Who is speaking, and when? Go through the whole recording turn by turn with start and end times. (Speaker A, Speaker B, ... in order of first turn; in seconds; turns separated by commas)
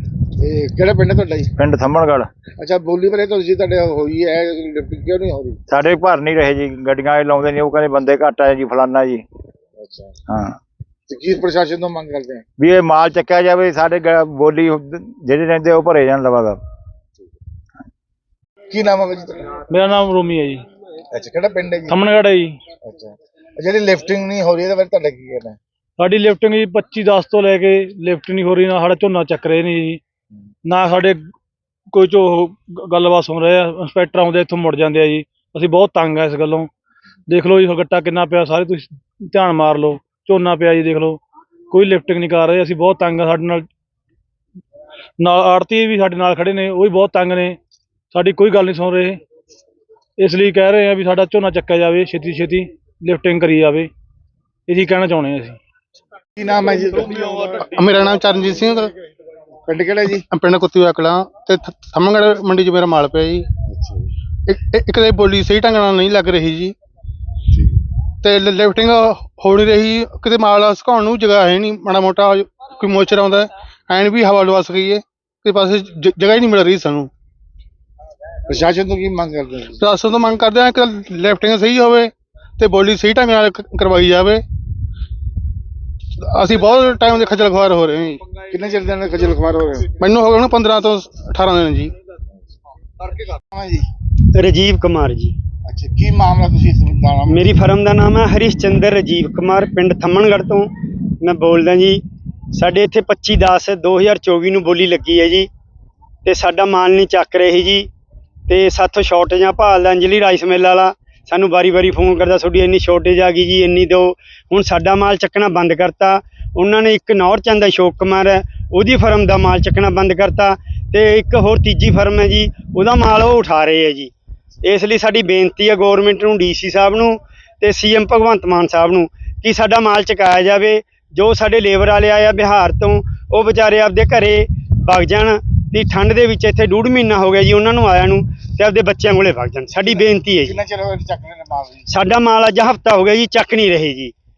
Speaker A: 0.4-1.5, Speaker B: 1.6-2.3, Speaker A: 2.6-5.6, Speaker B: 5.7-9.2, Speaker A: 9.8-10.1, Speaker B: 10.3-10.6, Speaker A: 11.1-12.4, Speaker B: 12.6-16.6, Speaker A: 18.7-19.5, Speaker C: 19.7-20.6, Speaker A: 21.1-21.9, Speaker C: 21.9-22.6, Speaker A: 22.8-25.6, Speaker C: 26.0-30.0, Speaker C: 30.6-31.2, Speaker C: 31.9-36.7, Speaker C: 37.3-43.7, Speaker C: 45.2-47.6, Speaker C: 48.1-49.2, Speaker C: 50.2-53.9, Speaker C: 54.7-55.6, Speaker A: 56.4-57.6, Speaker D: 57.6-58.9, Speaker A: 59.6-60.2, Speaker D: 60.1-63.5, Speaker A: 63.7-64.1, Speaker D: 64.5-66.7, Speaker D: 68.2-77.1, Speaker A: 78.5-79.8, Speaker D: 79.8-84.4, Speaker D: 86.2-88.2, Speaker A: 88.5-89.9, Speaker D: 90.0-91.9, Speaker A: 93.5-93.8, Speaker E: 94.3-95.3, Speaker A: 95.6-97.6, Speaker E: 97.3-100.7, Speaker E: 101.2-102.0, Speaker E: 102.5-105.5, Speaker E: 106.2-107.9, Speaker E: 108.5-124.1, Speaker E: 124.6-140.6, Speaker A: 139.8-141.9, Speaker E: 141.9-144.1